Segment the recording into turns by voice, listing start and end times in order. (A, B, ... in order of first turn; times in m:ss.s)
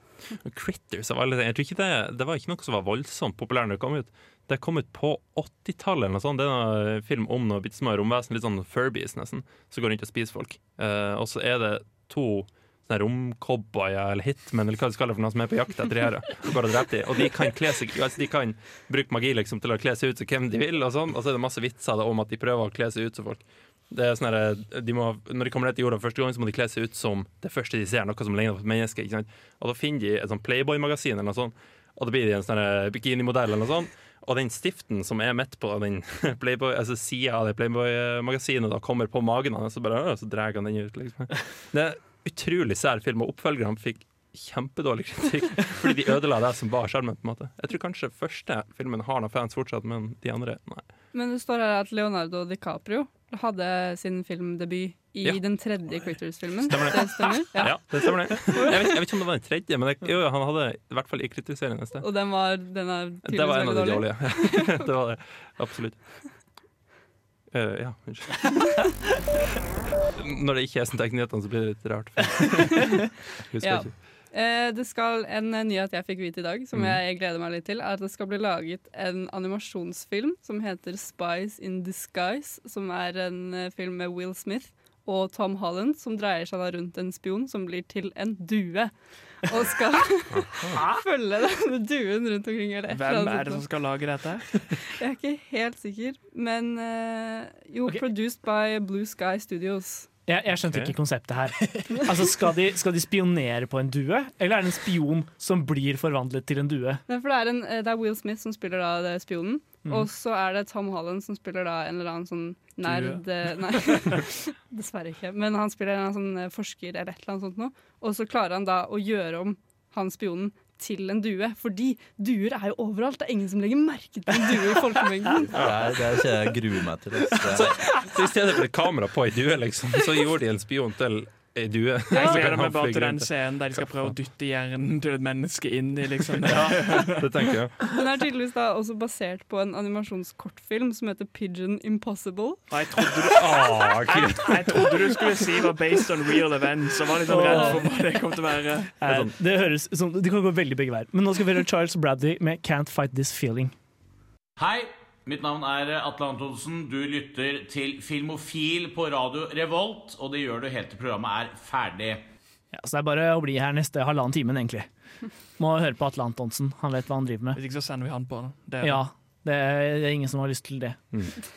0:00.4-0:50.9 A
0:51.1-0:58.8 B
0:56.6-1:02.0 A
1:02.0-1:04.9 B
1:03.2-1:06.2 A
1:07.5-1:08.7 A
1:10.1-1:13.9 A
1:12.7-1:13.1 B
1:13.6-1:33.6 B
1:16.7-1:17.0 A
1:30.3-1:30.8 A
1:32.9-1:34.7 C
1:34.8-1:40.1 B
1:40.2-1:47.0 D
1:40.7-1:40.9 A
1:47.1-2:05.5 B
1:53.8-1:54.2 C
2:05.5-2:07.8 E
2:07.5-2:13.3 A
2:12.1-2:17.5 C
2:16.5-2:17.8 A
2:17.8-2:22.6 B
2:22.7-2:28.9 C
2:23.3-2:25.2 A
2:27.3-2:27.8 D
2:29.0-2:33.7 D
2:34.6-2:42.2 F
2:42.7-2:44.9 D
2:45.6-2:47.6 D
2:47.5-2:49.0 C
2:48.8-2:51.0 D